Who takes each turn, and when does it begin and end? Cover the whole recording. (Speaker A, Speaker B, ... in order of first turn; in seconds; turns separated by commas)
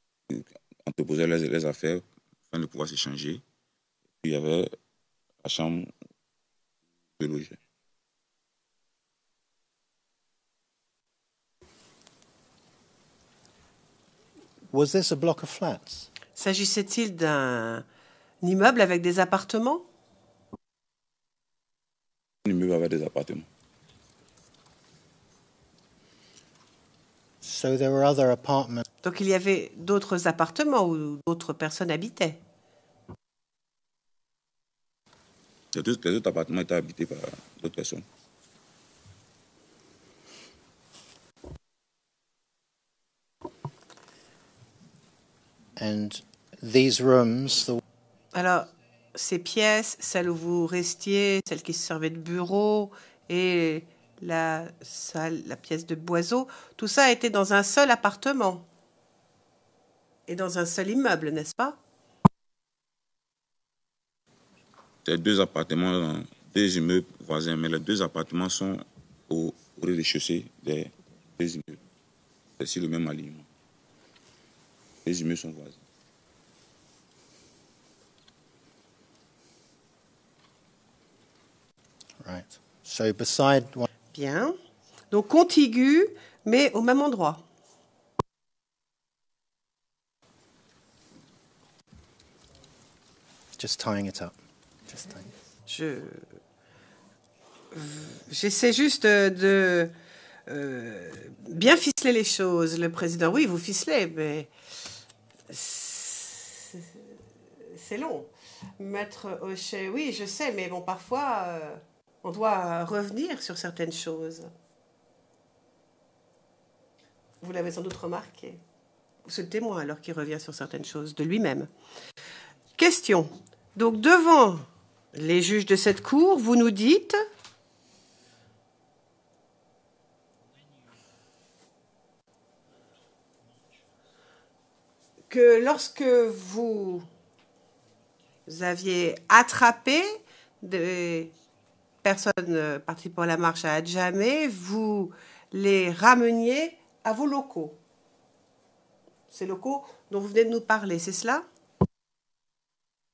Speaker A: 0.3-3.4, Speaker A: 4.2-4.7, Speaker A: 5.4-5.9, Speaker A: 7.2-7.6, Speaker B: 14.7-16.1, Speaker C: 16.4-17.8, Speaker C: 18.4-19.8, Speaker A: 22.4-23.5, Speaker B: 27.4-28.8, Speaker C: 29.0-32.4, Speaker A: 35.7-38.0, Speaker B: 45.8-47.8, Speaker C: 48.3-58.6, Speaker C: 60.3-61.8, Speaker A: 65.0-71.8, Speaker A: 72.6-73.4, Speaker A: 75.0-75.8, Speaker B: 82.2-83.9, Speaker C: 84.1-84.5, Speaker C: 85.1-87.4, Speaker B: 93.6-94.3, Speaker B: 94.9-95.3, Speaker C: 95.7-96.3, Speaker C: 97.7-99.9, Speaker C: 100.5-104.5, Speaker C: 105.5-114.5, Speaker C: 117.4-118.6, Speaker C: 119.2-121.7, Speaker C: 122.8-127.2, Speaker C: 135.3-137.1, Speaker C: 138.5-141.3, Speaker C: 142.0-147.8, Speaker C: 149.3-151.4